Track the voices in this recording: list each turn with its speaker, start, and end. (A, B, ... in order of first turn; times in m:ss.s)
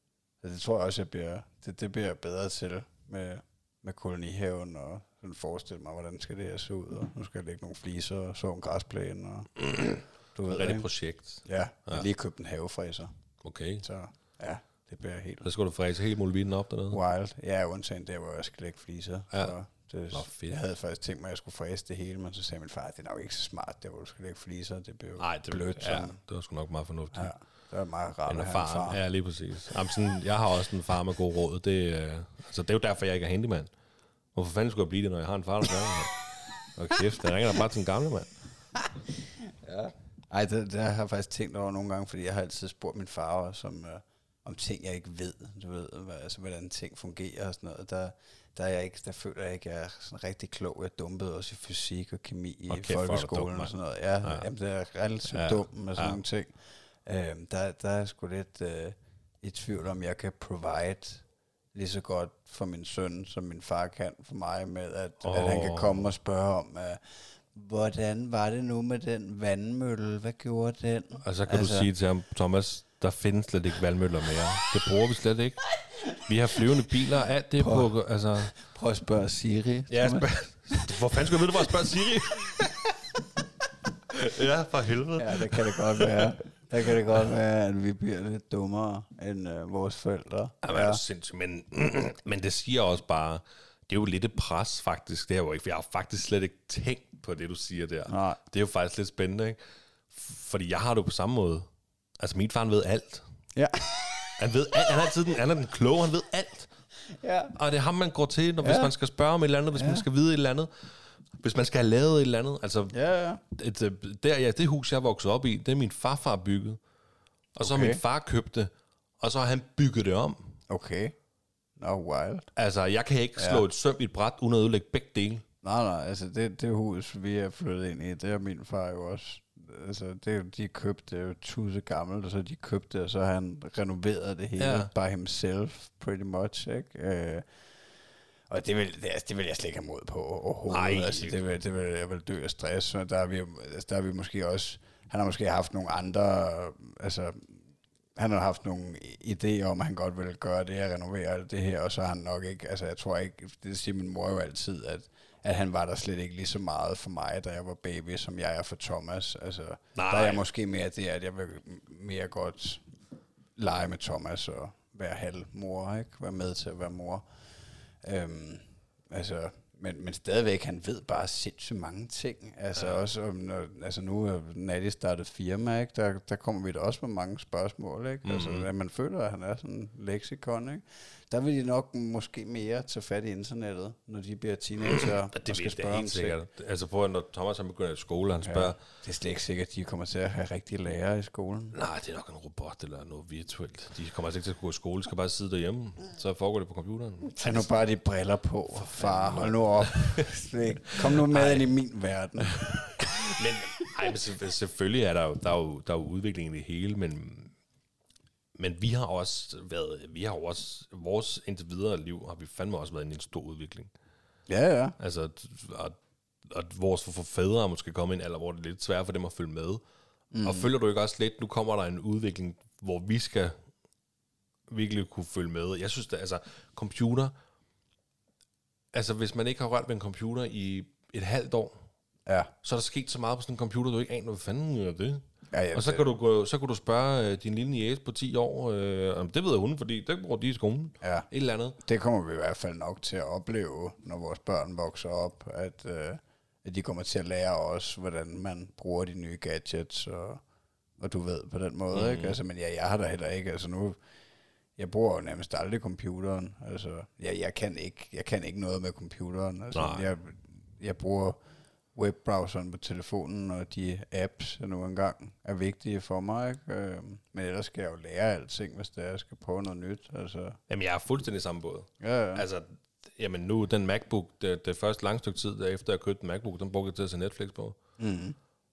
0:00.4-0:09.5 A
0:09.6-0:12.0 B
0:10.3-0:10.9 A
0:11.4-0:13.1 A
0:13.4-0:13.8 B
0:13.8-0:15.5 A
0:15.4-0:17.0 B
0:16.9-0:26.2 A
0:20.1-0:20.6 B
0:25.2-0:27.3 B
0:27.1-0:29.0 A
0:28.3-0:33.7 B
0:34.3-0:38.3 B
0:38.8-1:11.9 A
0:52.7-0:53.7 B
0:55.3-0:56.2 B
1:05.2-1:06.1 B
1:11.2-1:18.5 B
1:17.6-1:17.9 A
1:18.5-1:20.9 A
1:19.9-1:22.6 B
1:24.1-1:26.3 B
1:25.2-1:31.0 A
1:30.6-1:39.6 B
1:38.1-1:38.4 A
1:40.1-1:41.7 B
1:42.2-1:43.2 B
1:43.6-1:44.4 A
1:44.4-1:46.7 B
1:47.1-1:47.5 A
1:47.5-1:53.0 B
1:48.6-1:48.9 A
1:49.7-1:50.0 A
1:52.9-1:53.4 A
1:53.5-1:56.8 B
1:57.6-2:00.6 B
1:57.6-1:58.0 A
2:00.7-2:01.1 A
2:01.8-2:02.4 A
2:02.6-2:05.4 B
2:03.4-2:03.6 A
2:05.6-2:17.4 A
2:14.6-2:14.9 B
2:18.5-2:27.6 A
2:20.7-2:21.4 B
2:28.2-2:42.8 A
2:39.9-2:40.4 B
2:43.6-2:47.2 A
2:48.0-3:06.4 A
2:52.8-2:53.0 B
2:58.2-2:58.7 B
3:04.8-3:08.8 B
3:08.4-3:11.8 A
3:11.7-3:17.7 B
3:17.3-3:24.2 A
3:18.7-3:20.2 B
3:20.9-3:21.7 B
3:22.8-3:27.5 B
3:28.6-3:33.9 B
3:34.5-3:34.9 A
3:35.0-3:39.8 B
3:40.3-3:40.7 A
3:40.4-3:43.6 B
3:44.7-3:47.3 B
3:48.9-3:51.8 B
3:52.2-3:52.5 A
3:52.6-3:55.2 B
3:55.5-3:56.1 A
3:55.7-4:01.8 B
4:01.0-4:01.3 A
4:01.8-4:10.4 A
4:11.0-4:14.0 A
4:11.9-4:12.4 B
4:14.8-4:21.4 A
4:19.7-4:20.1 B
4:21.9-4:30.6 A
4:30.7-4:37.8 B
4:32.0-4:32.4 A
4:38.0-4:38.4 A